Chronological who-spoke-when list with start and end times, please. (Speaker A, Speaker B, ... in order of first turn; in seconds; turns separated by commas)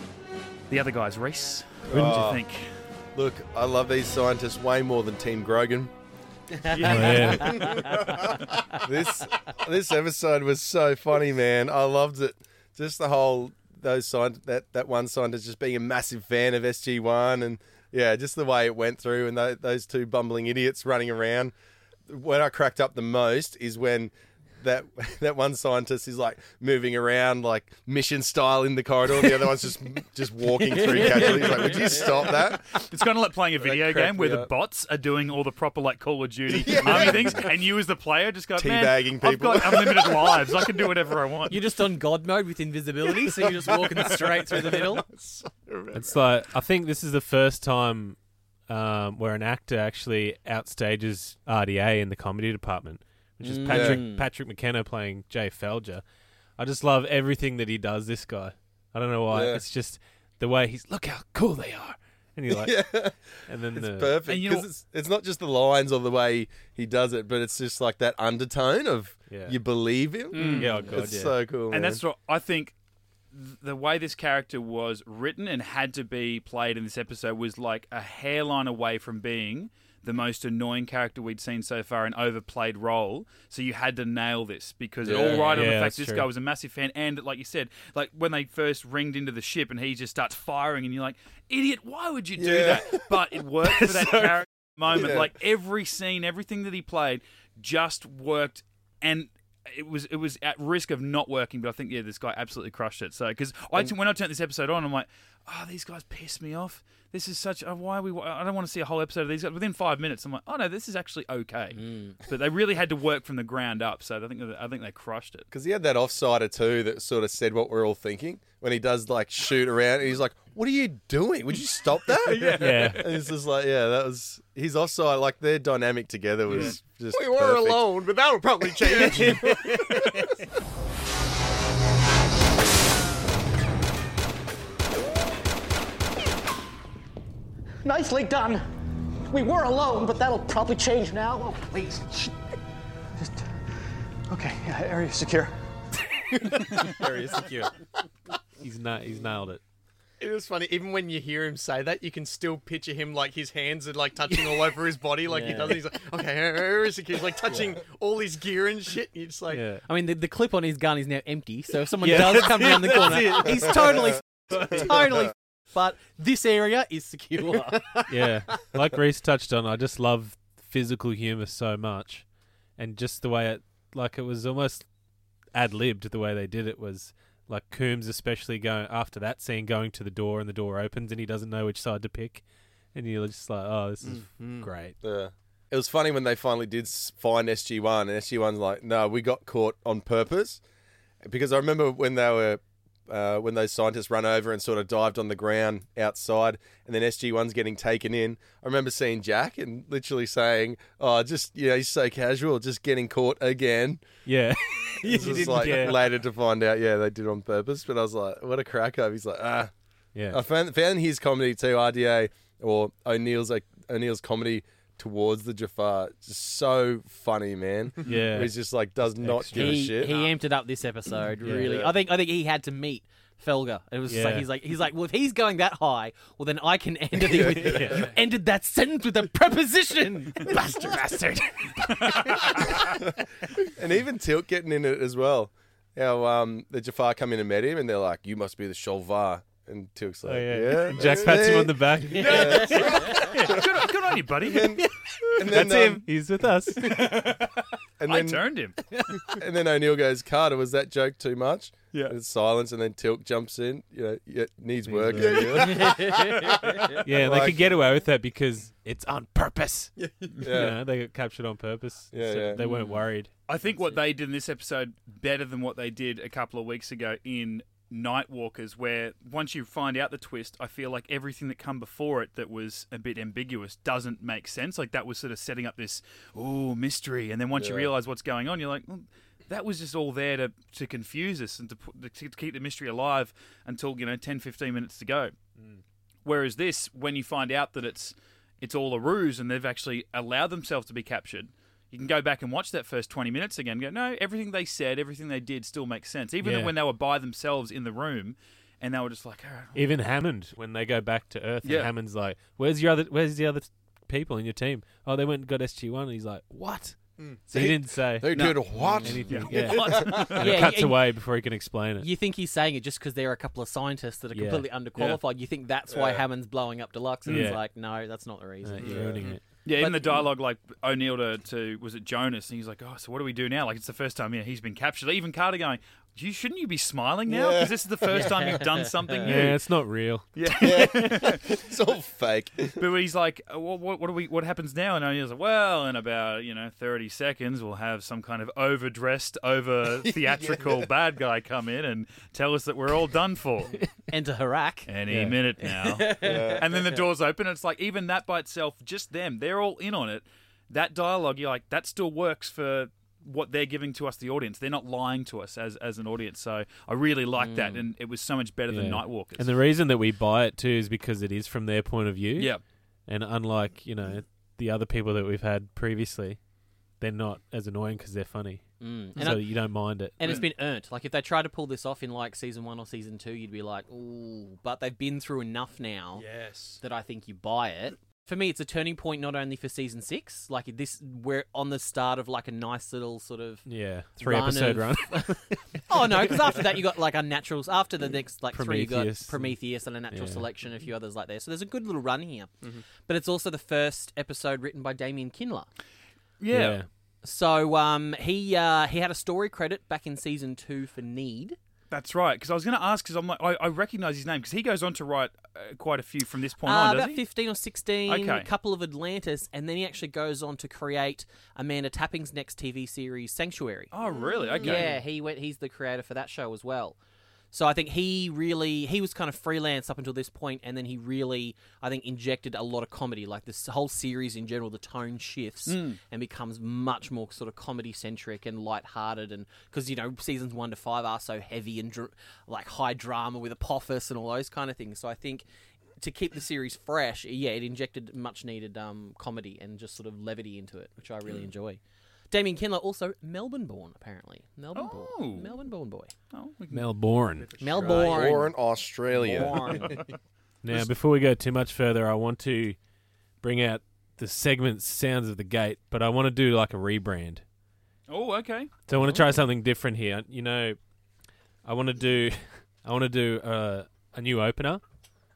Speaker A: 0.7-2.7, Speaker B: 1.9-2.4, Speaker C: 1.9-2.3, Speaker B: 3.1-5.9, Speaker A: 6.7-7.7, Speaker C: 6.8-7.9, Speaker D: 7.2-8.1, Speaker B: 7.7-21.5, Speaker B: 22.1-32.8, Speaker D: 30.7-32.3, Speaker A: 31.2-41.6, Speaker B: 33.6-34.5, Speaker B: 36.5-37.5, Speaker B: 38.6-40.9, Speaker D: 41.5-45.0, Speaker B: 45.2-46.1, Speaker C: 45.9-48.2, Speaker C: 48.7-56.0, Speaker D: 53.4-54.3, Speaker B: 53.7-54.0, Speaker C: 56.6-62.9, Speaker B: 59.3-59.6, Speaker B: 62.5-72.0, Speaker C: 63.5-64.3, Speaker A: 64.3-64.7, Speaker C: 69.3-69.5, Speaker C: 70.3-71.4, Speaker A: 70.3-70.9, Speaker E: 70.3-70.8, Speaker A: 71.7-72.7, Speaker A: 73.3-115.5, Speaker B: 85.0-85.6, Speaker C: 85.4-86.3, Speaker B: 92.4-95.3, Speaker D: 111.8-112.2, Speaker B: 115.5-127.9, Speaker E: 122.1-123.0, Speaker C: 122.5-123.1, Speaker E: 126.5-130.4, Speaker B: 128.8-129.8, Speaker F: 137.8-138.6, Speaker F: 139.3-142.4, Speaker F: 144.3-145.6, Speaker F: 146.3-146.8, Speaker E: 146.8-147.4, Speaker D: 147.0-147.4, Speaker C: 148.6-149.6, Speaker E: 150.2-159.6, Speaker D: 155.3-155.8, Speaker C: 159.5-159.8, Speaker D: 159.8-168.4, Speaker C: 162.0-163.7, Speaker C: 168.1-172.2, Speaker C: 172.8-174.9, Speaker C: 175.5-182.4, Speaker C: 182.9-185.0, Speaker B: 184.1-190.6, Speaker B: 191.2-204.0, Speaker C: 204.2-206.1, Speaker B: 205.0-209.7, Speaker C: 210.2-210.4, Speaker B: 210.3-220.2, Speaker C: 218.0-218.6, Speaker C: 219.1-220.1, Speaker D: 219.5-232.6, Speaker C: 221.4-221.7, Speaker B: 221.5-221.9, Speaker C: 224.1-224.5, Speaker B: 227.3-228.0, Speaker C: 227.4-228.1, Speaker C: 230.5-231.2, Speaker A: 231.9-232.9, Speaker B: 233.6-246.1, Speaker C: 240.2-242.9, Speaker E: 242.2-243.3, Speaker A: 242.9-244.8, Speaker C: 245.3-247.4, Speaker A: 246.8-247.5, Speaker B: 248.0-248.5, Speaker A: 248.0-248.8, Speaker B: 249.3-257.7, Speaker C: 254.8-256.1, Speaker E: 255.2-257.0, Speaker D: 255.5-256.9, Speaker C: 257.0-263.3, Speaker E: 260.0-260.4, Speaker B: 260.4-260.8, Speaker B: 262.1-262.6, Speaker D: 262.6-263.0, Speaker A: 263.5-285.3, Speaker B: 277.5-277.9, Speaker A: 286.2-299.9, Speaker C: 296.4-296.7, Speaker C: 299.7-312.1, Speaker A: 301.6-301.9, Speaker B: 307.5-310.4, Speaker A: 308.3-310.6, Speaker D: 308.8-311.1, Speaker D: 312.0-319.0, Speaker C: 314.3-315.2, Speaker B: 315.9-316.2, Speaker C: 317.3-317.6, Speaker C: 318.6-319.4, Speaker E: 318.8-319.4, Speaker B: 318.8-319.3, Speaker A: 319.6-329.6, Speaker D: 319.8-320.2, Speaker B: 327.3-328.2, Speaker D: 328.1-329.1, Speaker C: 329.2-330.3, Speaker A: 330.4-331.6, Speaker B: 330.4-332.8, Speaker A: 332.8-343.8, Speaker B: 340.0-340.9, Speaker D: 344.1-344.9, Speaker A: 344.9-359.5, Speaker C: 345.1-345.4, Speaker D: 345.8-346.6, Speaker B: 346.2-346.9, Speaker D: 357.4-357.8, Speaker C: 358.7-362.5, Speaker A: 362.4-362.6, Speaker C: 363.1-366.4, Speaker C: 367.0-368.6, Speaker D: 368.8-376.2, Speaker C: 369.2-370.4, Speaker E: 376.1-376.8, Speaker D: 376.8-395.7, Speaker C: 383.6-386.7, Speaker C: 388.5-389.6, Speaker C: 390.1-390.5, Speaker A: 396.4-396.8, Speaker C: 396.5-396.9, Speaker D: 397.2-401.6, Speaker A: 401.9-407.2, Speaker D: 406.6-413.9, Speaker A: 408.1-408.5, Speaker A: 413.9-414.9, Speaker D: 414.6-417.0, Speaker D: 417.5-435.4, Speaker A: 425.7-426.0, Speaker D: 436.0-441.8, Speaker D: 442.3-446.1, Speaker A: 444.7-445.6, Speaker A: 446.3-446.9, Speaker C: 446.7-447.5, Speaker E: 447.4-448.4, Speaker D: 447.6-448.6, Speaker B: 447.8-449.9, Speaker D: 449.2-450.0, Speaker E: 449.3-450.1, Speaker C: 450.6-452.8, Speaker C: 453.4-457.4, Speaker A: 458.1-458.8, Speaker C: 458.9-460.8, Speaker C: 461.6-464.8